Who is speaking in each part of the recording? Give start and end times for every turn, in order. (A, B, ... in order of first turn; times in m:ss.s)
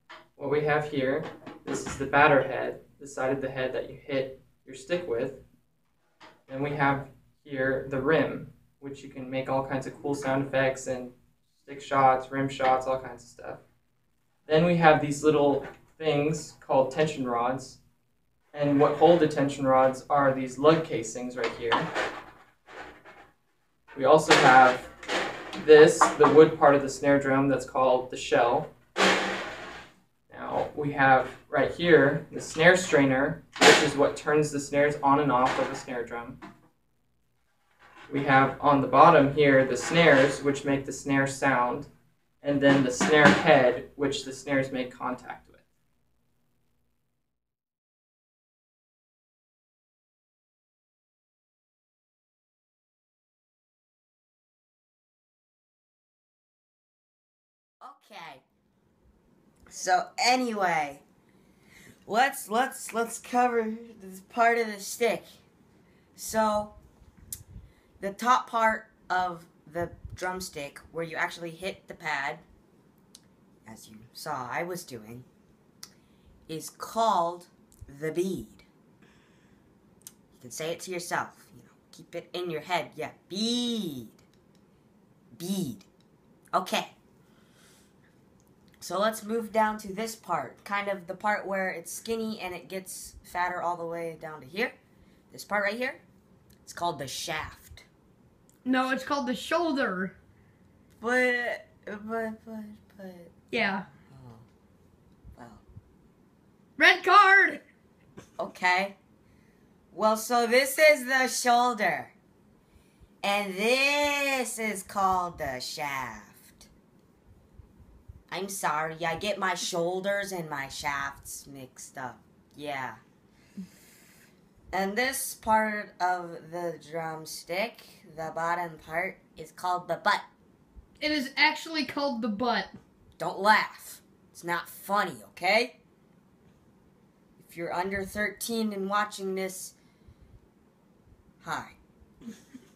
0:00.4-0:05.4 A
0:06.5-0:13.6 A
0:14.4-0:17.8 A
0:18.5-0:21.9 A
0:23.9-0:24.9 A
0:25.6-0:28.7 A
0:30.3-0:36.4 A
0:38.1-0:41.9 A
0:42.4-0:45.6 A
0:57.8-0:58.4 B
0:59.7-1:01.0 B
1:02.1-1:05.4 B
1:06.2-1:06.7 B
1:08.0-1:12.4 B
1:13.6-1:15.3 B
1:16.5-1:18.7 B
1:20.4-1:24.2 B
1:25.4-1:25.9 B
1:26.5-1:27.0 B
1:28.8-1:34.8 B
1:35.3-1:36.0 B
1:36.6-1:37.9 B
1:38.6-1:40.1 C
1:41.0-1:43.4 B
1:43.5-1:43.9 C
1:44.1-1:44.4 B
1:45.4-1:45.6 B
1:46.8-1:47.6 C
1:48.4-1:49.0 B
1:49.9-1:52.2 B
1:53.2-1:56.7 B
1:58.3-2:03.0 B
2:04.7-2:10.2 B
2:11.0-2:12.7 C
2:13.2-2:15.8 B
2:17.4-2:19.8 B
2:21.4-2:21.8 B